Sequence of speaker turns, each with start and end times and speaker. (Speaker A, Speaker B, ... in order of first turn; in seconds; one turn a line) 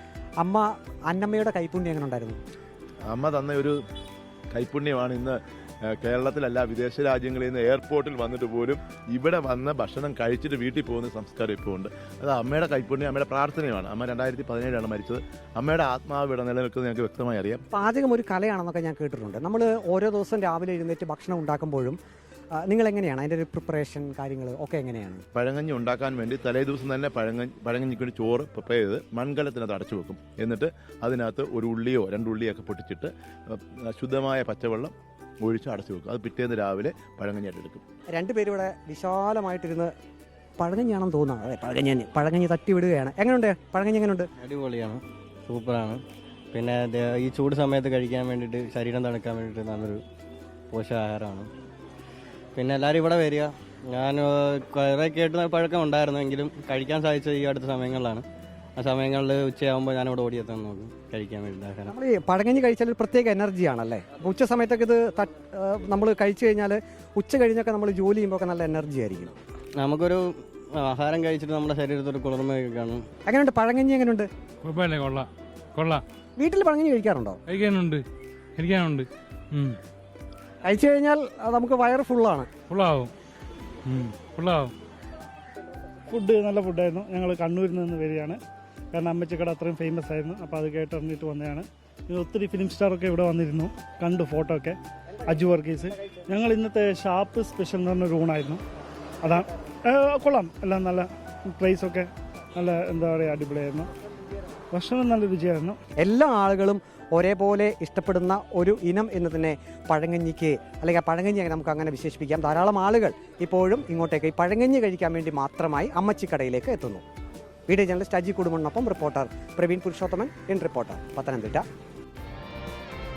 Speaker A: 0.4-2.4
Speaker B: 3.1-3.8
Speaker B: 4.5-5.4
Speaker B: 5.9-17.6
Speaker A: 17.7-22.0
Speaker A: 22.6-25.2
Speaker B: 25.3-37.8
Speaker A: 38.1-39.9
Speaker A: 40.6-44.3
Speaker C: 44.4-46.0
Speaker C: 46.5-50.0
Speaker C: 50.7-51.5
Speaker C: 52.6-58.2
Speaker C: 58.8-61.9
Speaker A: 61.9-69.3
Speaker C: 69.8-73.0
Speaker A: 73.3-74.3
Speaker D: 74.6-76.0
Speaker A: 76.4-77.4
Speaker D: 77.5-78.0
Speaker D: 78.6-79.8
Speaker A: 80.6-82.5
Speaker D: 82.7-83.1
Speaker D: 83.9-84.7
Speaker E: 86.1-88.4
Speaker E: 88.9-98.6
Speaker E: 99.2-103.9
Speaker E: 104.7-105.8
Speaker A: 106.0-117.0
Speaker A: 117.7-121.7